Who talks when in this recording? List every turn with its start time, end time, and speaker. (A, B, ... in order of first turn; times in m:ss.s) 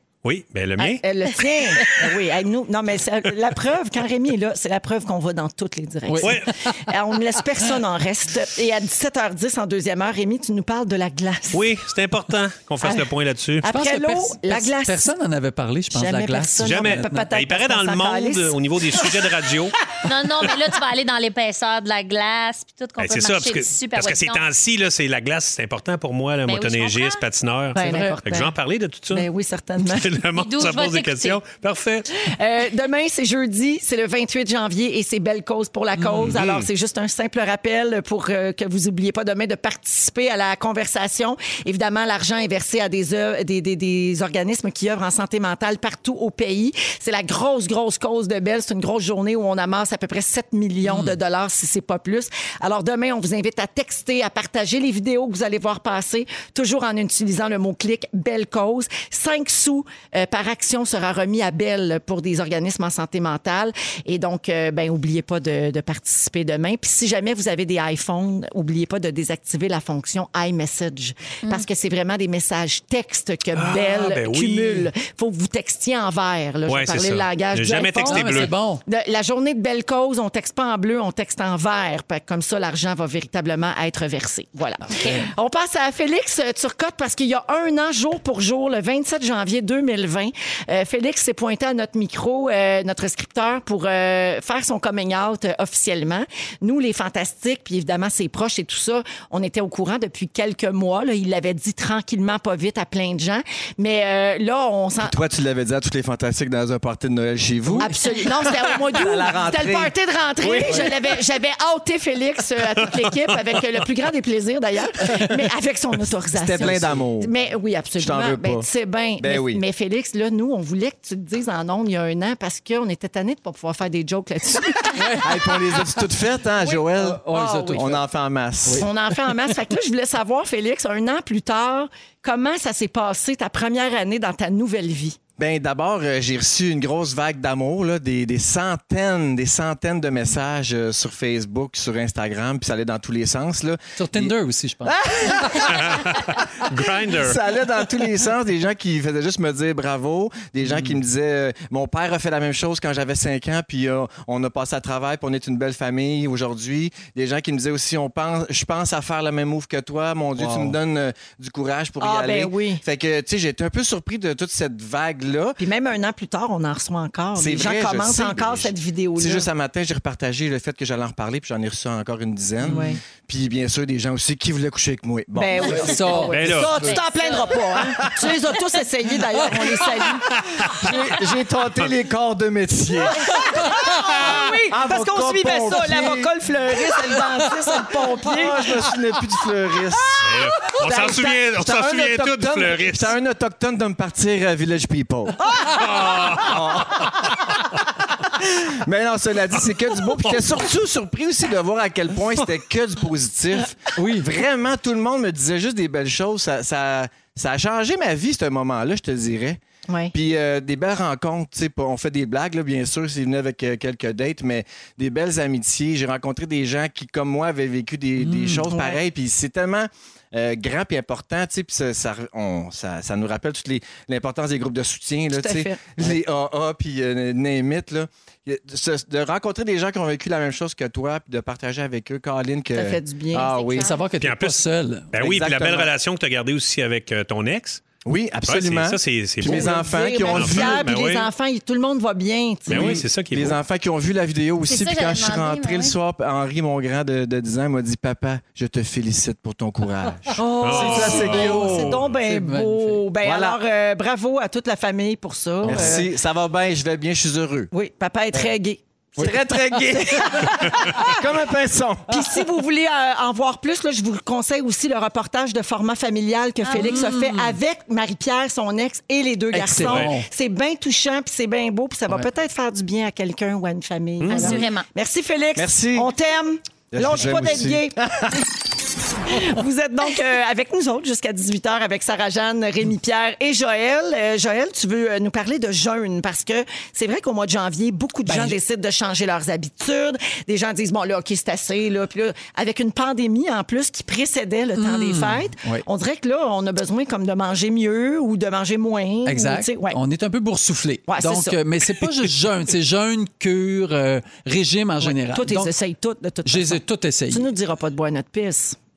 0:00.2-0:01.0 A
0:00.8-0:11.6 B
0:06.1-0:06.7 C
0:06.2-0:06.5 A
0:11.5-0:13.6 A
0:12.8-0:13.1 B
0:13.6-0:15.1 B
0:13.7-0:17.3 C
0:15.9-0:19.1 B
0:16.6-0:19.8 A
0:20.0-0:24.4 D
0:23.0-0:29.3 A
0:26.5-0:27.2 D
0:27.7-0:28.5 B
0:27.8-0:28.2 C
0:29.1-0:30.1 B
0:29.8-0:32.1 A
0:30.3-0:31.4 D
0:32.1-1:45.1 B
0:36.2-0:36.7 A
0:50.8-0:51.1 C
1:13.5-1:14.9 A
1:16.7-1:18.5 A
1:18.0-1:18.8 C
1:24.9-1:25.3 C
1:45.0-1:47.9 E
1:47.7-1:48.0 C
1:47.8-2:05.5 B
1:48.5-1:51.1 E
1:56.3-1:57.3 E
1:58.0-1:58.7 E
1:59.2-1:59.6 E
2:04.9-2:05.3 C
2:05.2-2:08.9 E
2:06.7-2:08.0 C
2:07.3-2:07.9 B
2:08.7-2:15.2 B
2:15.4-2:24.3 E
2:24.0-2:25.7 C
2:24.8-2:26.2 E
2:25.7-2:27.4 A
2:27.1-2:45.6 E
2:30.6-2:30.9 C
2:42.0-2:42.8 B
2:45.6-2:49.5 B
2:47.4-2:56.6 E
2:52.6-2:52.9 C
2:52.6-2:53.0 B
2:55.3-3:00.4 B
2:55.6-2:56.9 C
2:56.3-2:56.8 A
2:56.8-2:57.6 D
2:57.8-2:58.3 E
2:59.4-2:59.8 C
3:00.4-3:00.7 A
3:00.8-3:03.3 E
3:03.1-3:08.7 B
3:03.4-3:03.9 C
3:04.2-3:04.5 A
3:04.2-3:06.3 E
3:05.7-3:06.0 C
3:07.0-3:07.8 C
3:08.3-3:17.4 E
3:10.2-3:13.1 A
3:10.8-3:11.4 B
3:15.8-3:17.3 A
3:18.7-3:29.6 E
3:23.9-3:24.3 C
3:29.9-3:30.1 B
3:30.1-3:53.9 E
3:38.2-3:38.7 C
3:38.7-3:39.0 B
3:45.3-3:45.9 B
3:52.7-3:53.5 B
3:53.3-3:54.0 D
3:53.8-3:55.1 C
3:54.2-3:54.6 A
3:55.1-3:57.8 A
3:55.2-3:55.9 E
3:58.0-4:00.9 E
3:58.4-4:01.3 A
3:59.4-4:03.0 B
4:02.7-4:03.6 A
4:02.7-4:11.9 E
4:04.6-4:05.9 D
4:10.3-4:16.0 B
4:10.6-4:12.0 A
4:10.7-4:13.0 C
4:13.2-4:13.6 E
4:15.6-4:16.0 C
4:15.6-4:17.7 E
4:17.7-4:21.3 B
4:19.2-4:22.2 E
4:22.1-4:38.0 B
4:26.6-4:27.0 D
4:26.7-4:27.6 C
4:29.5-4:30.3 C
4:29.8-4:30.1 A
4:34.2-4:34.6 A
4:34.3-4:34.8 D
4:35.6-4:36.1 E
4:36.9-4:38.4 E
4:39.2-5:00.0 B
4:48.2-4:48.6 C
4:54.8-4:55.8 C
4:59.2-5:05.7 C
5:01.1-5:02.0 B
5:05.0-5:08.8 B
5:06.4-5:07.5 C